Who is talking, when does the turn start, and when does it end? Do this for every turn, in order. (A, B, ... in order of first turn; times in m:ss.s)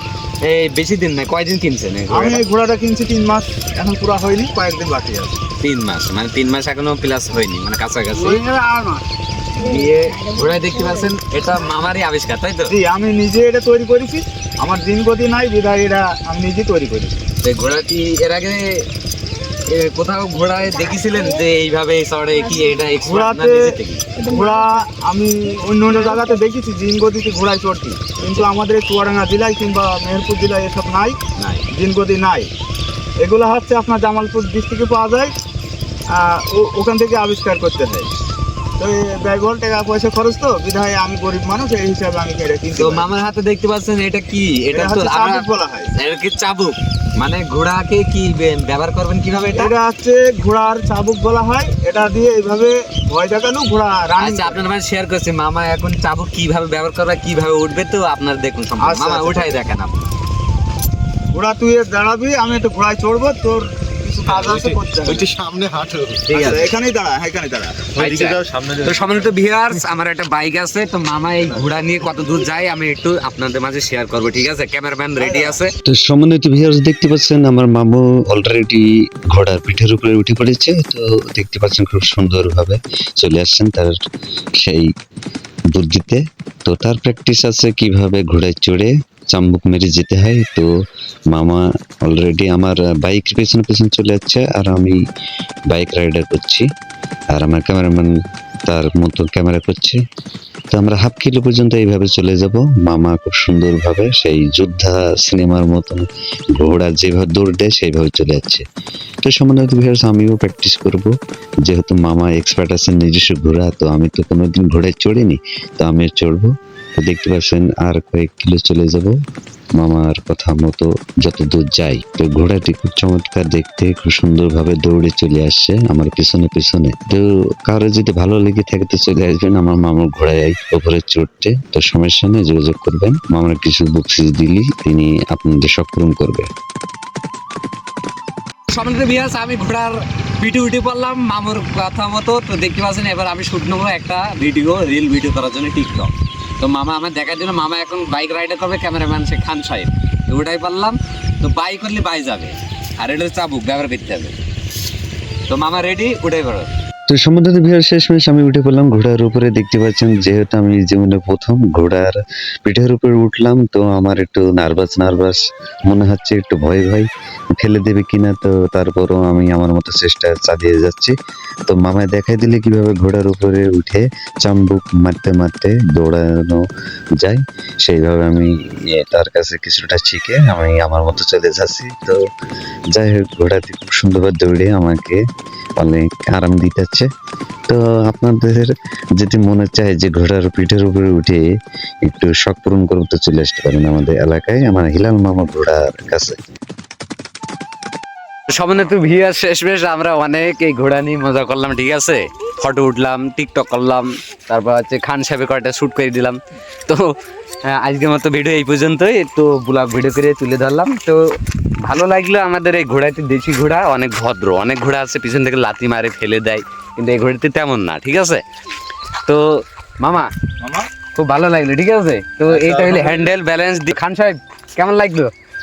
0:00.4-0:02.4 A
0:02.1-0:05.3 B
0:05.6-0:08.4 A
0:08.2-0:09.0 B
0:09.6-0:12.7 A
0:12.7-0:17.2 B
0:17.4-0:18.9 A
0:19.7-0:24.0 A
0:23.0-0:31.2 B
0:31.4-0:31.7 A
0:31.7-0:32.5 B
0:33.2-0:35.3 B
0:36.1-0:38.1 B
0:38.8-0:43.1 B
0:42.8-0:45.4 A
0:44.7-0:45.9 B
0:45.9-0:49.7 A
0:49.5-0:54.6 B
0:54.2-1:00.1 A
0:58.8-0:59.6 B
1:01.3-1:05.3 B
1:04.4-1:06.3 C
1:06.3-1:06.7 A
1:06.3-1:08.0 B
1:08.0-1:09.2 C
1:08.0-1:15.7 A
1:15.2-1:15.6 B
1:15.8-1:24.0 D
1:24.6-1:24.9 D
1:25.7-1:30.7 D
1:31.3-1:35.0 D
1:35.7-1:36.7 D
1:37.3-1:38.1 D
1:38.6-1:40.0 D
1:40.7-1:48.6 D
1:49.2-1:59.2 D
1:59.8-2:16.5 D
2:18.7-2:34.3 A
2:35.5-2:36.7 A
2:37.1-2:51.1 D
2:51.7-2:56.6 D
2:57.2-3:02.2 D
3:02.9-3:05.2 D
3:05.8-3:07.1 D
3:07.7-3:11.4 D
3:12.0-3:16.4 D
3:18.5-3:38.4 A
3:39.2-3:40.3 A
3:40.6-3:40.9 B
3:41.1-3:45.3 A
3:42.5-3:43.3 B